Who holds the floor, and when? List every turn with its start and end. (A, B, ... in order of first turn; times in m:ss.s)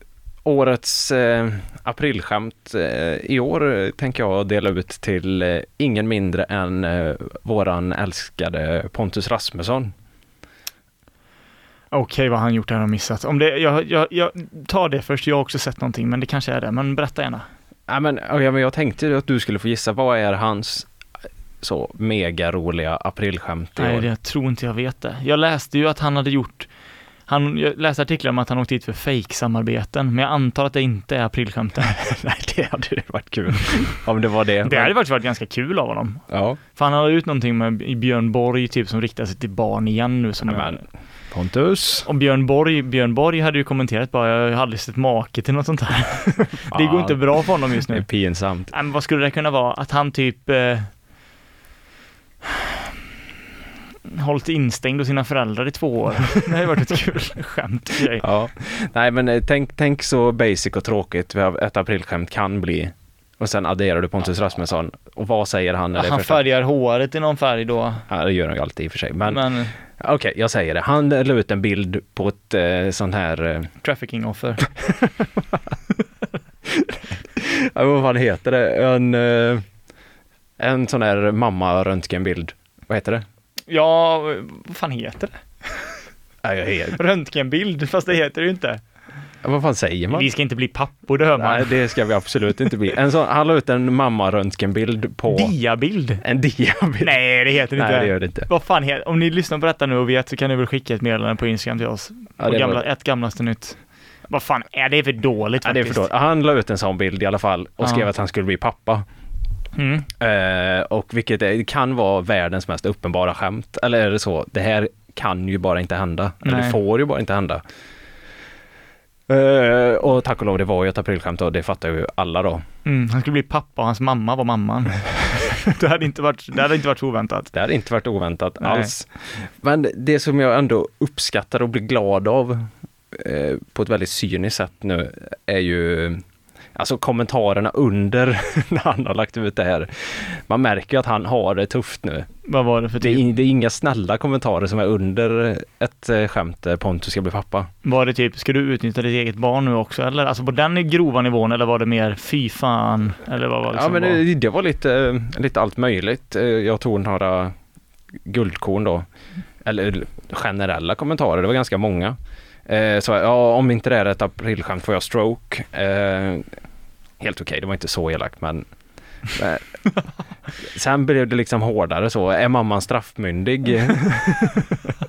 0:00.4-0:09.9 A
0:11.9-0:17.5 B
0:17.9-0:20.9 A
0:21.6-0:24.0 A
0:23.8-0:26.7 B
0:27.3-0:31.9 B
0:31.9-0:34.9 A
0:34.6-0:36.2 B
0:36.3-0:36.6 A
0:36.8-0:40.8 B
0:40.5-0:42.1 A
0:42.0-0:48.0 B
0:46.7-0:47.2 A
0:47.9-0:48.7 A
0:48.7-0:50.9 B
0:54.1-0:58.2 B
0:58.1-1:06.4 A
1:06.0-1:08.0 B
1:08.1-1:13.7 A
1:09.2-1:09.7 B
1:13.8-1:14.6 B
1:14.9-1:15.6 A
1:16.7-1:19.6 A
1:20.6-1:23.2 A
1:23.7-1:25.8 B
1:26.4-1:27.0 A
1:26.9-1:28.8 B
1:29.4-1:30.3 A
1:30.1-1:31.7 B
1:31.3-1:35.5 A
1:35.3-1:36.2 B
1:36.2-1:37.2 A
1:37.0-1:43.8 B
1:37.7-1:38.5 A
1:42.4-1:42.8 A
1:44.3-1:46.0 B
1:45.6-1:49.0 A
1:47.8-1:48.1 B
1:49.8-1:50.1 B
1:50.2-1:57.6 A
1:56.4-1:56.8 B
1:59.3-2:02.6 A
2:02.8-2:07.5 B
2:07.5-2:16.2 A
2:08.6-2:08.9 B
2:16.8-2:22.3 A
2:22.5-2:23.3 B
2:23.0-2:27.7 A
2:27.8-2:34.2 B
2:33.7-2:37.5 A
2:38.2-2:39.0 A
2:39.6-2:46.4 A
2:47.2-2:48.6 A
2:49.3-2:49.6 A
2:50.6-2:54.8 A